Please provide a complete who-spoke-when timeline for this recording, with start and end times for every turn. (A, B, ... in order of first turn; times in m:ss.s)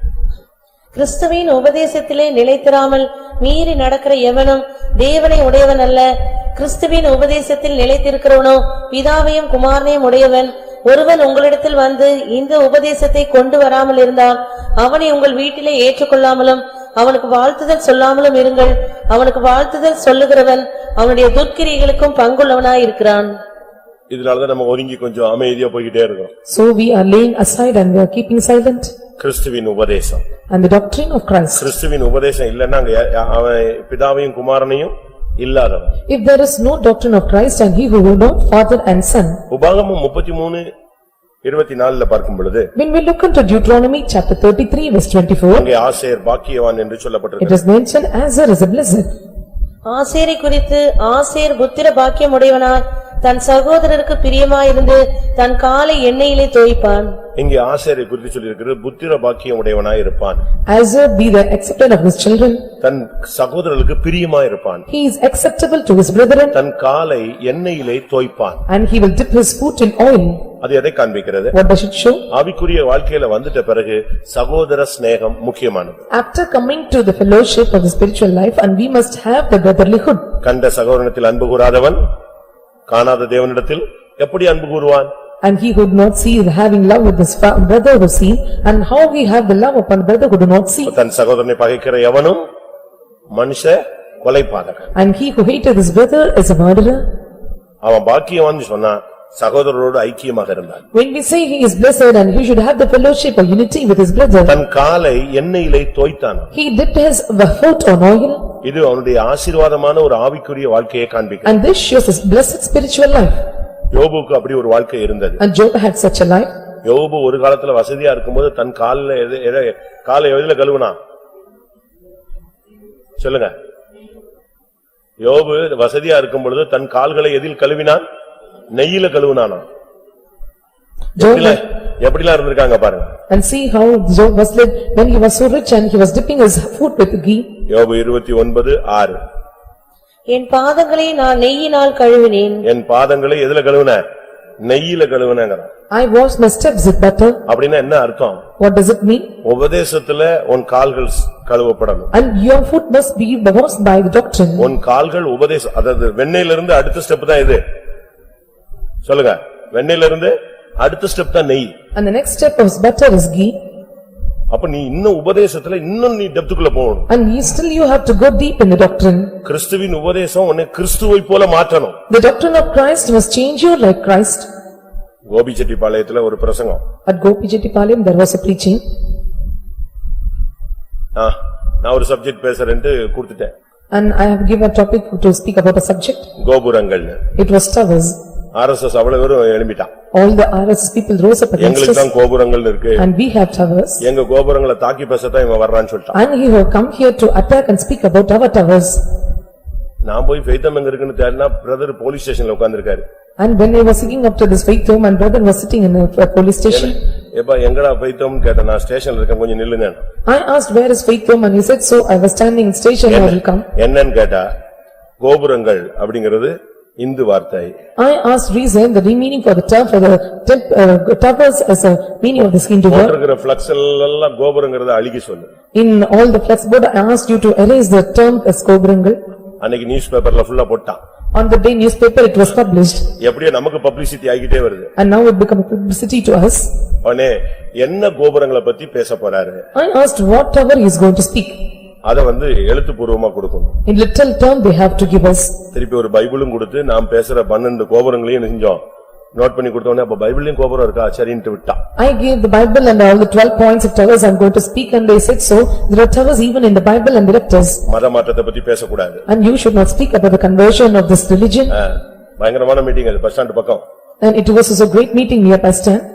0:01.0-0:23.3 A
0:24.1-0:26.3 B
0:26.5-0:28.9 C
0:29.2-0:30.2 B
0:30.5-0:31.7 C
0:31.6-0:36.0 B
0:36.1-0:39.4 C
0:39.5-0:40.7 B
0:41.4-0:42.7 B
0:42.8-0:45.7 C
0:45.5-0:47.6 B
0:47.4-0:49.1 C
0:49.9-0:57.2 A
0:57.4-1:00.4 B
1:00.7-1:02.6 C
1:02.8-1:04.9 B
1:04.9-1:06.6 C
1:06.5-1:08.6 B
1:08.7-1:10.5 C
1:10.6-1:11.5 B
1:11.5-1:12.3 C
1:12.3-1:16.0 B
1:16.1-1:20.3 C
1:20.4-1:22.0 B
1:22.9-1:25.1 B
1:25.4-1:30.9 C
1:30.9-1:32.5 B
1:33.3-1:34.9 B
1:35.0-1:37.0 C
1:37.8-1:40.9 B
1:40.9-1:44.6 C
1:44.5-1:46.5 B
1:46.5-1:48.5 C
1:48.6-1:51.5 B
1:51.4-1:53.3 C
1:53.9-1:55.4 B
1:55.4-1:56.5 C
1:56.8-2:01.0 B
2:03.2-2:03.5 B
2:05.2-2:08.0 B
2:08.7-2:09.6 B
2:11.2-2:11.6 C
2:11.2-2:13.1 B
2:13.3-2:17.5 C
2:17.7-2:19.2 B
2:20.3-2:22.6 A
2:22.6-2:24.0 B
2:24.6-2:25.7 B
2:25.9-2:27.4 C
2:27.5-2:28.4 B
2:28.6-2:29.3 C
2:29.4-2:32.1 B
2:32.1-2:34.7 C
2:34.6-2:37.6 B
2:39.0-2:41.8 B
2:42.0-2:43.6 C
2:44.5-2:47.1 B
2:47.1-2:49.3 C
2:49.4-2:52.0 B
2:52.1-2:54.5 C
2:55.3-2:56.8 B
2:57.1-2:58.8 C
3:01.2-3:03.5 B
3:03.9-3:06.3 C
3:06.4-3:07.2 B
3:07.4-3:08.2 C
3:08.5-3:09.9 B
3:10.1-3:12.1 C
3:11.6-3:13.1 B
3:13.0-3:14.0 C
3:14.0-3:16.2 B
3:16.1-3:19.0 C
3:20.0-3:23.0 B
3:23.4-3:27.0 C
3:26.7-3:30.0 B
3:30.3-3:33.7 C
3:33.1-3:34.5 B
3:35.2-3:37.8 B
3:38.0-3:43.2 C
3:42.9-3:45.5 B
3:45.7-3:49.2 C
3:49.6-3:51.0 B
3:51.4-3:53.1 C
3:53.2-3:54.9 B
3:55.0-3:56.7 C
3:57.0-3:59.6 B
3:59.8-4:01.6 C
4:02.0-4:03.8 B
4:03.9-4:05.6 C
4:05.7-4:08.8 B
4:09.4-4:11.8 B
4:12.0-4:17.8 C
4:17.9-4:19.2 B
4:19.3-4:21.8 C
4:21.7-4:23.8 B
4:24.2-4:26.0 C